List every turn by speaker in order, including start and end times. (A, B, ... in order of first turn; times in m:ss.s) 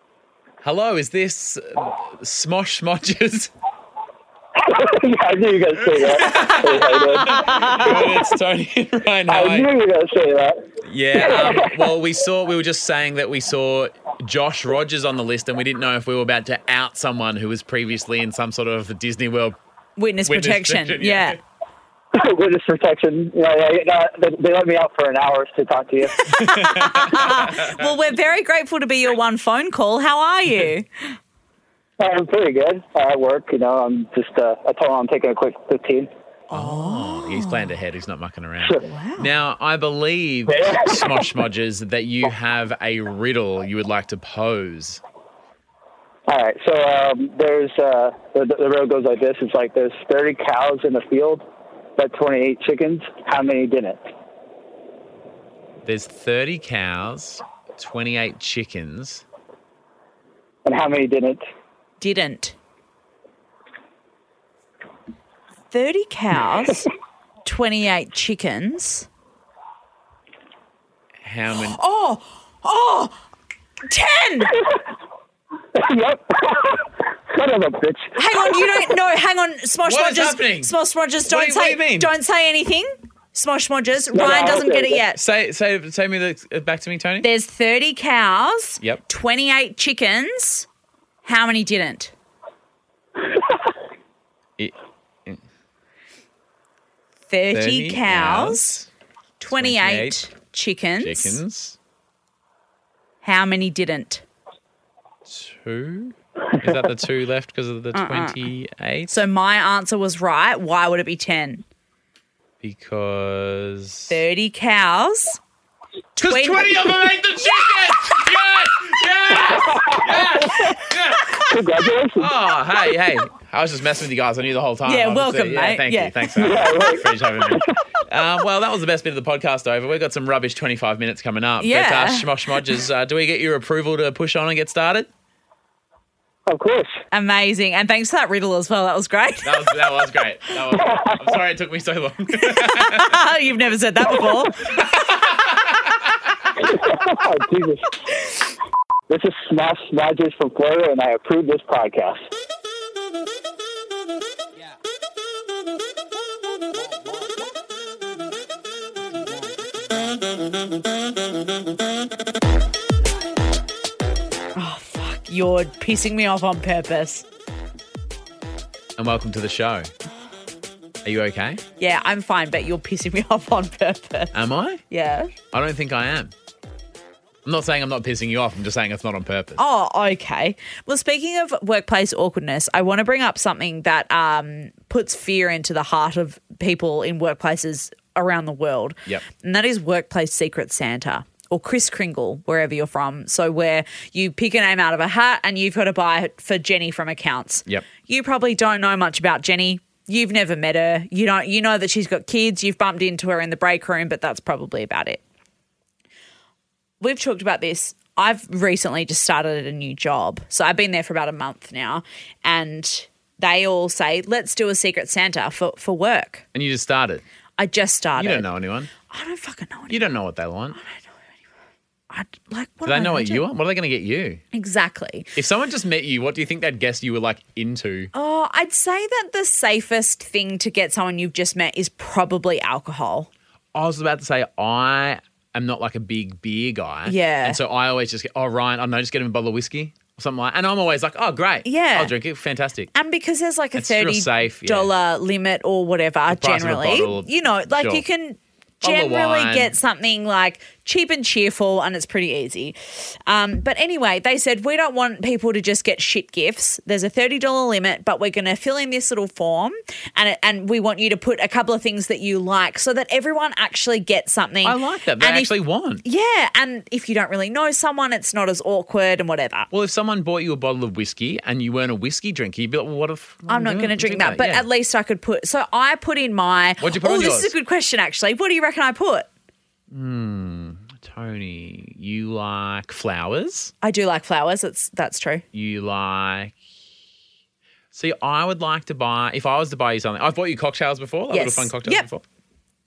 0:00.6-0:03.5 A
0:04.6-0:08.2 B
0:05.9-0:09.7 A
0:07.2-0:07.9 C
0:09.3-0:11.7 B
0:10.8-0:19.6 A
0:20.0-0:21.4 C
0:20.3-0:21.4 A
0:22.1-0:26.3 B
0:26.2-0:31.2 C
0:26.3-0:27.9 A
0:32.0-0:36.1 B
0:36.5-0:37.7 C
0:36.5-0:45.0 A
0:38.8-0:39.3 C
0:40.5-0:41.3 B
0:46.3-0:51.4 B
0:52.0-0:54.1 B
0:55.8-0:59.2 A
1:00.6-1:01.4 B
1:02.0-1:02.6 C
1:05.7-1:06.9 C
1:07.4-1:09.1 C
1:11.2-1:11.8 A
1:11.5-1:13.2 C
1:13.9-1:14.6 C
1:15.7-1:18.9 B
1:18.2-1:25.2 C
1:19.8-1:20.7 A
1:21.2-1:22.1 A
1:24.1-1:25.0 B
1:25.2-1:27.3 A
1:27.2-1:30.7 C
1:31.2-1:32.1 C
1:34.6-1:35.4 A
1:37.3-1:38.8 C
1:37.5-1:38.9 A
1:39.4-1:41.4 C
1:39.5-1:40.2 A
1:41.0-1:41.8 A
1:43.2-1:44.2 C
1:45.2-1:49.2 A
1:47.9-1:48.4 C
1:49.1-1:51.6 C
1:52.6-1:54.2 A
1:54.1-1:55.4 C
1:56.2-1:56.7 C
1:56.2-2:01.4 A
1:59.5-2:00.7 B
2:01.3-2:02.3 B
2:02.2-2:15.1 A
2:04.8-2:06.9 C
2:06.4-2:07.7 B
2:11.6-2:12.6 C
2:16.5-2:17.0 B
2:17.1-2:19.8 C
2:19.4-2:23.4 A
2:20.7-2:21.2 B
2:22.3-2:24.7 C
2:24.1-2:26.4 A
2:26.6-2:28.0 B
2:29.1-2:32.2 B
2:44.5-2:47.2 C
2:49.0-2:49.9 A
2:51.0-2:51.6 A
2:51.8-2:54.3 C
2:54.3-2:54.8 A
2:54.9-2:55.3 C
2:55.5-2:56.3 A
2:57.4-2:59.6 A
2:59.6-3:25.2 C
3:27.0-3:36.4 C
3:36.5-3:37.2 A
3:37.6-3:38.5 C
3:38.2-3:38.9 A
3:39.1-3:40.0 C
3:39.9-3:40.8 A
3:40.7-3:41.1 C
3:42.1-3:43.4 C
3:42.8-3:44.4 A
3:44.5-3:45.3 C
3:45.3-3:48.1 A
3:48.1-3:53.3 C
3:53.7-4:02.9 A
3:57.0-3:57.6 C
4:01.6-4:02.1 C
4:02.9-4:25.5 C
4:03.7-4:04.9 A
4:06.3-4:08.0 A
4:08.8-4:09.7 A
4:24.6-4:26.0 A
4:26.0-4:29.7 C
4:29.7-4:34.6 A
4:33.5-4:39.3 C
4:36.8-4:37.5 A
4:39.9-4:43.7 A
4:43.8-4:45.4 C
4:45.5-4:46.6 A
4:47.9-4:52.2 A
4:51.3-4:52.0 C